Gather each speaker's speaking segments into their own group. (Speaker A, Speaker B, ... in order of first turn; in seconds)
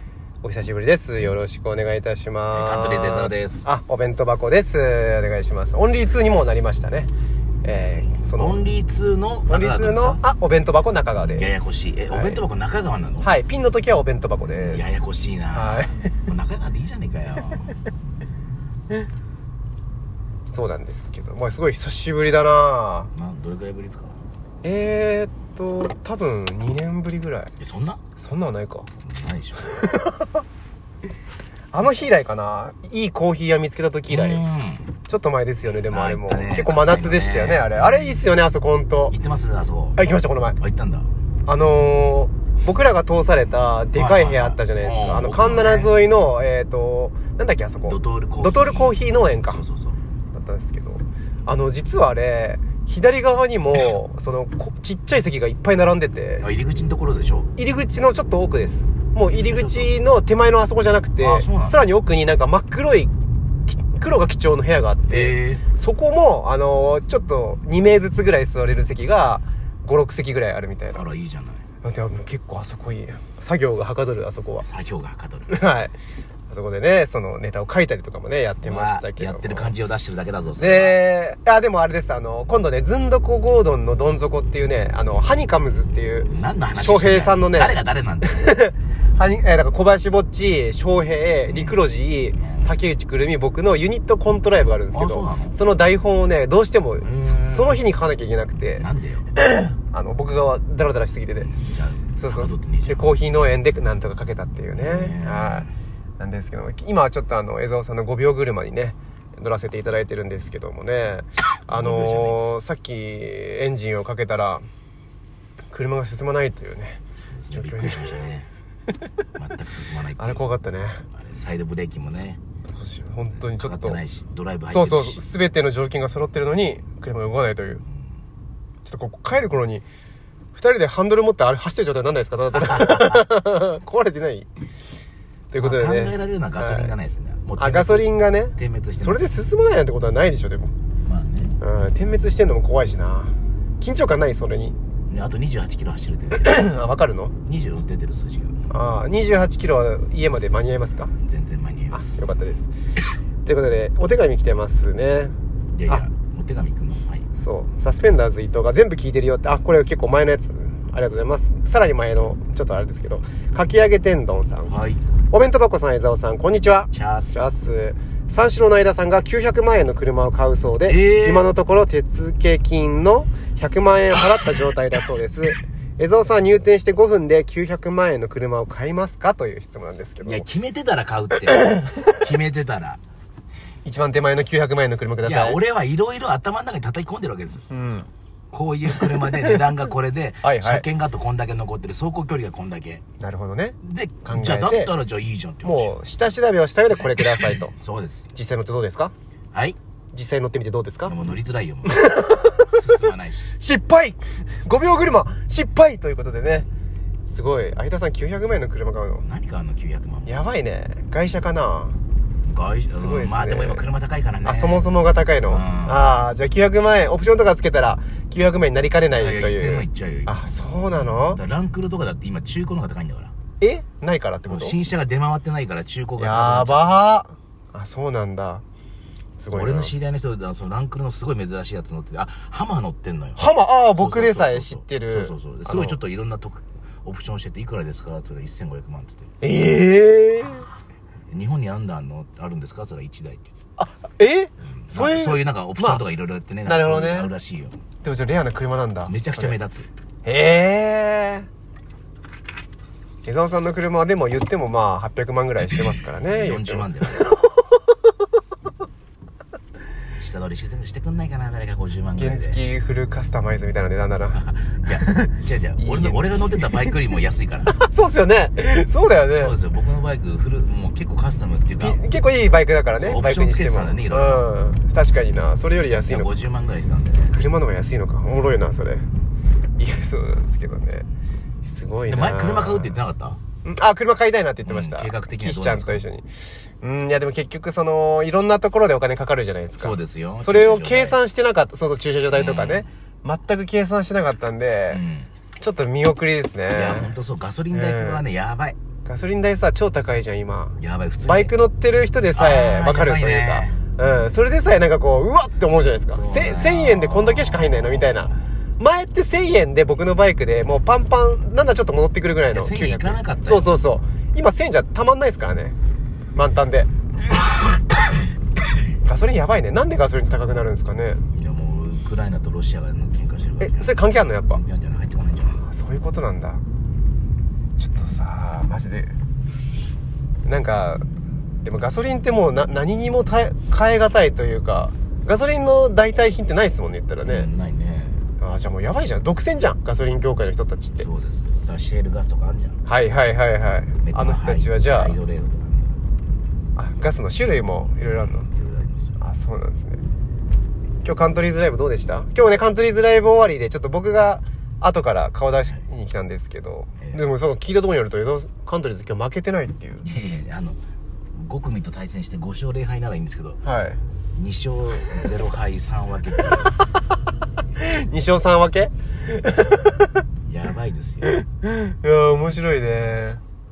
Speaker A: 0.4-7.1, 7.6-8.7, 9.5-12.4, 13.2-14.9, 15.5-16.1, 20.5-23.1, 24.6-27.5, 28.1-28.9, 29.7-30.3, 31.7-34.4, 35.1-39.1, 40.0-40.6, 41.5-49.6, 50.3-56.4, 57.6-63.1, 63.7-71.0, 71.8-74.7, 75.5-75.9, 76.5-79.7, 80.6-98.8, 99.4-101.5, 102.2-105.7, 106.2-114.6, 115.7-117.0, 117.5-118.2, 120.2-121.0, 122.7-124.0, 124.7-127.8, 128.8-129.8, 130.5-134.5, 135.5-136.9, 137.6-140.7, 141.6-144.8, 146.4-147.3, 148.7-151.1, 151.9-152.7, 153.4-155.3, 157.4-164.7, 165.3-180.5, 181.5-182.1, 183.8-185.6, 187.7-188.1, 188.9-189.6, 190.4-190.8, 193.2-194.9, 195.6-197.7, 198.3-199.1, 200.1-201.1, 201.8-202.8, 203.6-206.7, 207.3-209.2, 210.2-211.9, 212.9-213.8, 214.4-221.4, 223.6-224.8, 226.2-228.6, 229.4-229.9, 233.4-236.0, 239.4-240.7, 243.8-246.0, 246.7-247.3, 248.0-249.6, 250.2-251.5, 253.2-257.9, 262.2-264.4, 264.9-266.4, 267.7-269.5, 271.8-276.3, 277.3-279.0, 279.8-281.1, 281.6-282.9, 283.6-295.0, 295.6-297.1, 297.7-298.2, 299.0-315.7, 316.3-316.9, 319.0-321.2, 323.6-324.6, 325.6-326.6, 327.8-329.1, 330.4-331.1, 331.6-337.5, 338.4-341.1, 342.9-345.2, 346.8-348.5, 349.2-350.0, 351.0-360.0, 363.6-364.0, 367.8-370.1, 371.2-373.4
Speaker B: 2.5-3.6, 8.2-10.2, 11.2-13.3, 14.4-17.8, 23.1-24.2, 27.6-28.0, 29.0-29.8, 34.1-34.9, 35.8-38.3, 39.1-40.0, 40.6-41.1, 43.9-46.0, 47.9-50.0, 56.4-57.5, 59.3-59.9, 61.2-61.8, 65.1-65.6, 70.9-71.6, 74.6-75.5, 78.6-81.0, 86.2-88.5, 91.5-91.8, 92.3-92.7, 94.9-95.6, 97.0-97.8, 98.8-99.3, 101.4-103.1, 104.7-105.7, 111.7-112.5, 117.2-118.5, 119.3-120.5, 121.1-122.4, 123.3-125.2, 132.5-133.2, 135.6-139.3, 141.0-141.6, 145.1-146.6, 147.4-148.7, 151.2-152.2, 155.7-157.3, 164.7-165.0, 166.9-167.4, 170.8-171.5, 180.2-183.0, 185.2-187.7, 188.5-193.0, 193.8-195.9, 197.0-198.3, 201.0-202.1, 202.7-203.6, 209.2-210.4, 212.4-214.8, 215.4-216.1, 219.1-223.3, 224.5-227.0, 229.5-233.4, 234.0-239.3, 241.3-243.5, 244.8-247.8, 249.1-249.9, 256.1-257.3, 260.1-262.6, 264.3-267.7, 269.3-272.0, 273.0-274.5, 275.9-277.3, 282.1-283.4, 284.6-286.0, 289.8-291.2, 292.3-292.9, 294.9-295.3, 296.7-298.8, 300.8-301.5, 302.3-303.8, 306.1-308.4, 312.5-313.7, 321.3-325.6, 337.2-338.2, 341.0-342.8, 344.0-346.0, 348.0-349.2, 360.0-360.8, 361.3-363.6, 364.3-366.7, 370.4-371.3